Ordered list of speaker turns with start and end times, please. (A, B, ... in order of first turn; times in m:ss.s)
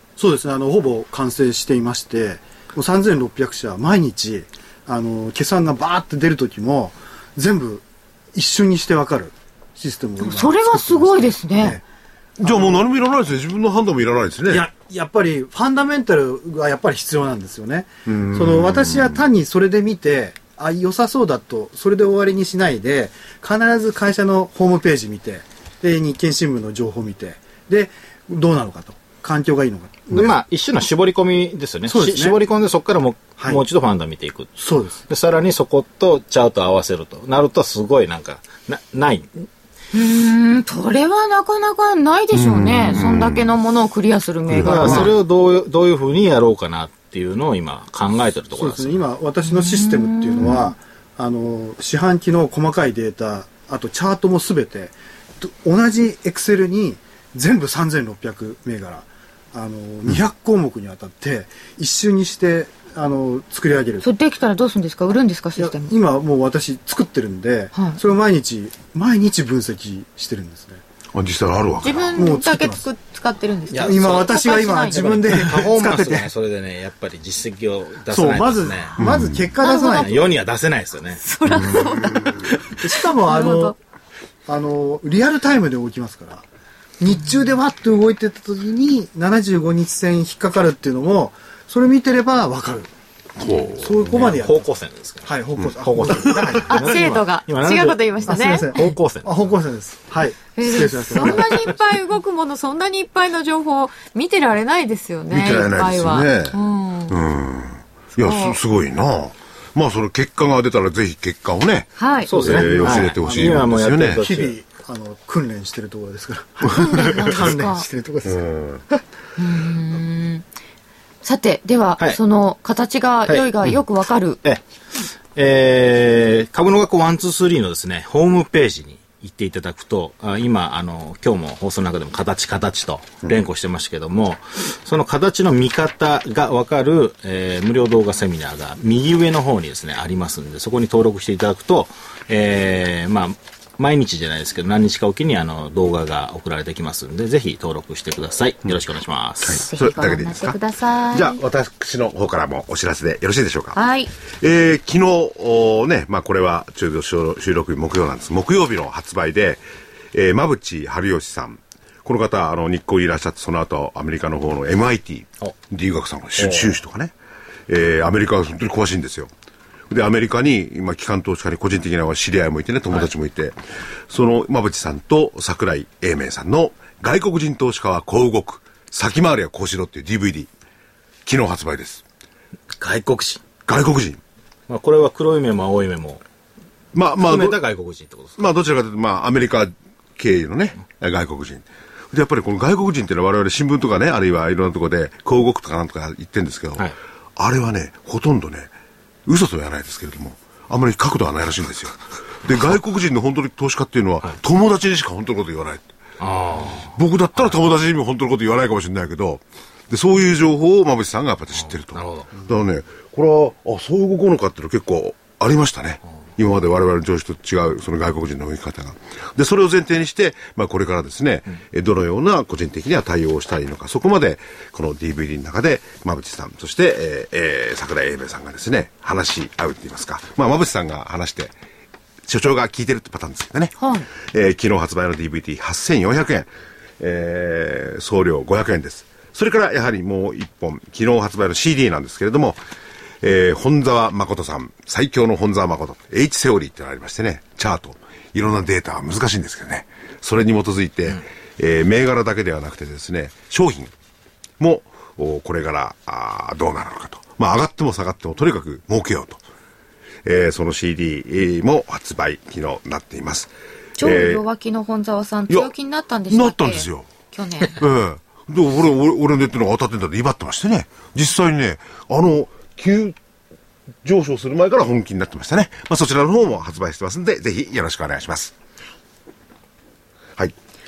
0:00.2-0:11.8 A
0:10.2-0:11.8 B
0:12.4-0:12.8 A
0:12.4-0:14.7 C
0:14.5-0:30.4 A
0:18.1-0:19.2 C
0:30.1-0:34.6 D
0:31.9-0:32.4 A
0:33.4-0:33.6 A
0:34.6-0:35.0 A
0:35.1-0:39.5 D
0:39.9-0:45.1 B
0:42.3-0:43.5 C
0:44.5-0:45.1 C
0:44.6-0:49.0 D
0:44.8-0:45.1 A
0:48.5-1:04.1 A
0:49.4-0:50.7 B
1:04.0-1:05.9 B
1:05.6-1:10.8 A
1:07.8-1:08.0 B
1:11.1-1:12.2 C
1:11.8-1:15.4 B
1:12.2-1:12.9 A
1:13.7-1:19.0 D
1:13.7-1:16.3 A
1:18.1-1:20.3 A
1:19.0-1:19.4 C
1:19.6-1:20.3 B
1:20.0-1:21.2 D
1:21.2-1:23.8 B
1:22.7-1:23.8 A
1:24.5-1:26.5 A
1:27.0-1:32.9 A
1:33.4-1:34.0 C
1:33.7-1:34.7 A
1:34.1-1:39.4 D
1:35.2-1:37.0 A
1:36.7-1:38.7 B
1:38.3-1:41.7 A
1:40.6-1:47.2 B
1:45.3-1:54.2 C
1:48.2-1:48.6 B
1:52.0-1:52.3 B
1:52.3-1:54.6 D
1:52.3-1:58.5 A
1:56.7-1:57.9 B
1:58.3-1:58.8 C
1:59.4-2:00.4 B
2:01.2-2:04.4 B
2:04.4-2:29.7 D
2:29.4-2:30.6 C
2:29.5-2:31.4 B
2:31.1-2:33.8 C
2:33.7-2:34.1 B
2:34.4-2:47.1 C
2:46.4-2:46.8 D
2:47.7-2:49.3 C
2:49.9-2:53.6 C
2:54.1-3:00.5 C
3:01.2-3:02.0 C
3:02.8-3:03.5 D
3:03.6-3:04.2 C
3:04.7-3:06.2 D
3:06.9-3:07.6 C
3:07.2-3:08.4 D
3:08.4-3:18.7 C
3:19.3-3:26.0 C
3:26.2-3:27.6 D
3:26.8-3:51.5 C
3:31.6-3:32.4 D
3:52.2-4:02.6 C
3:53.8-3:54.1 B
4:03.2-4:13.9 C
4:14.6-4:19.4 C
4:20.2-4:24.4 C
4:24.0-4:27.8 B
4:26.3-4:27.1 C
4:27.8-4:33.2 C
4:34.0-4:38.5 C